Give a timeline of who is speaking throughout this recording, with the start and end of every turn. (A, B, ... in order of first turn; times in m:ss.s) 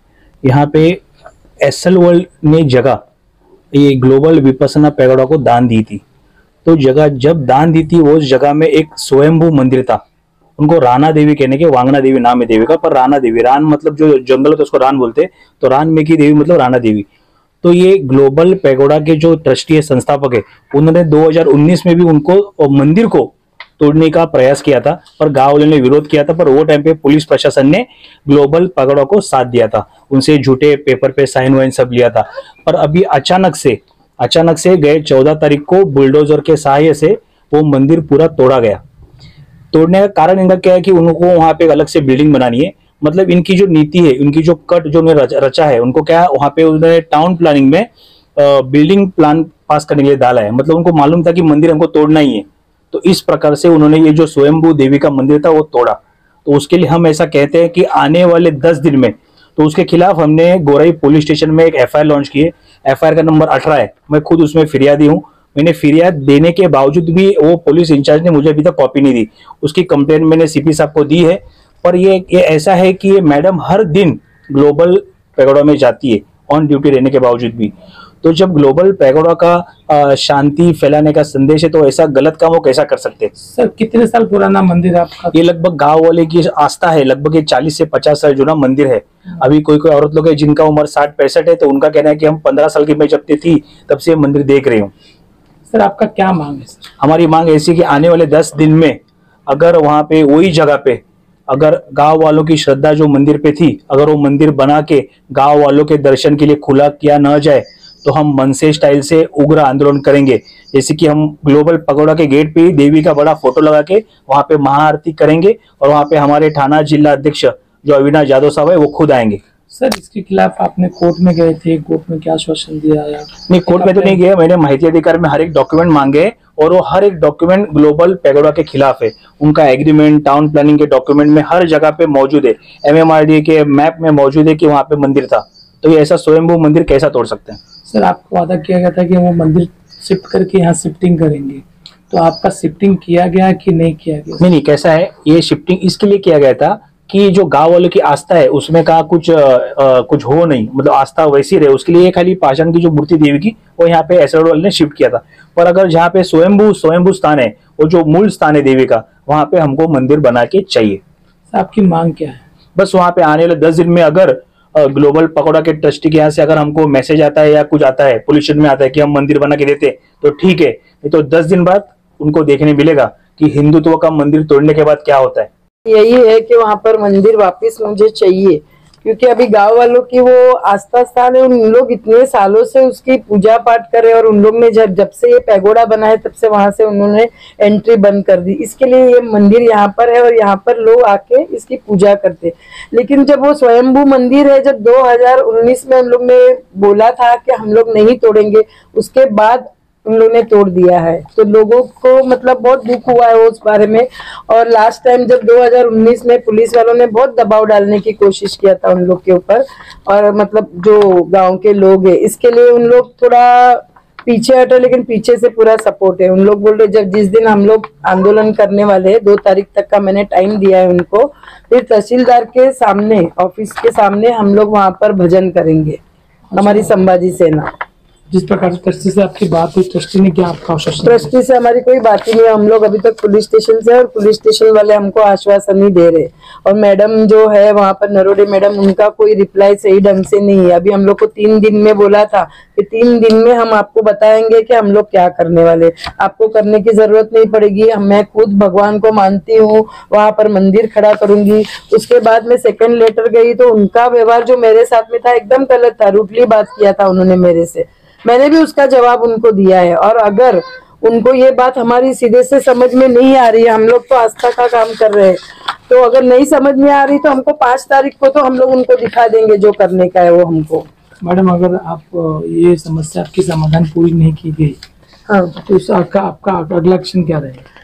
0:00.4-0:01.0 A
0:01.6-0:03.0 A
0:03.7-0:06.0 A
0:06.6-0:10.0 A
0:10.6-0:17.1 A
0:17.6-0:38.8 A
0:39.7-1:23.3 A
1:23.4-1:25.3 B
1:25.3-1:34.9 A
1:35.7-1:36.9 B
1:37.0-1:59.4 A
1:59.7-2:04.2 B
2:03.5-2:17.6 A
2:17.9-2:24.5 B
2:24.4-2:41.0 A
2:41.5-2:42.4 B
2:42.8-2:55.5 A
2:55.8-3:46.0 C
3:46.5-3:46.9 B
3:46.5-3:47.7 C
3:48.3-3:51.3 B
3:51.0-4:30.9 C
4:31.2-4:34.8 B
4:35.3-4:35.5 C
4:35.6-4:37.6 B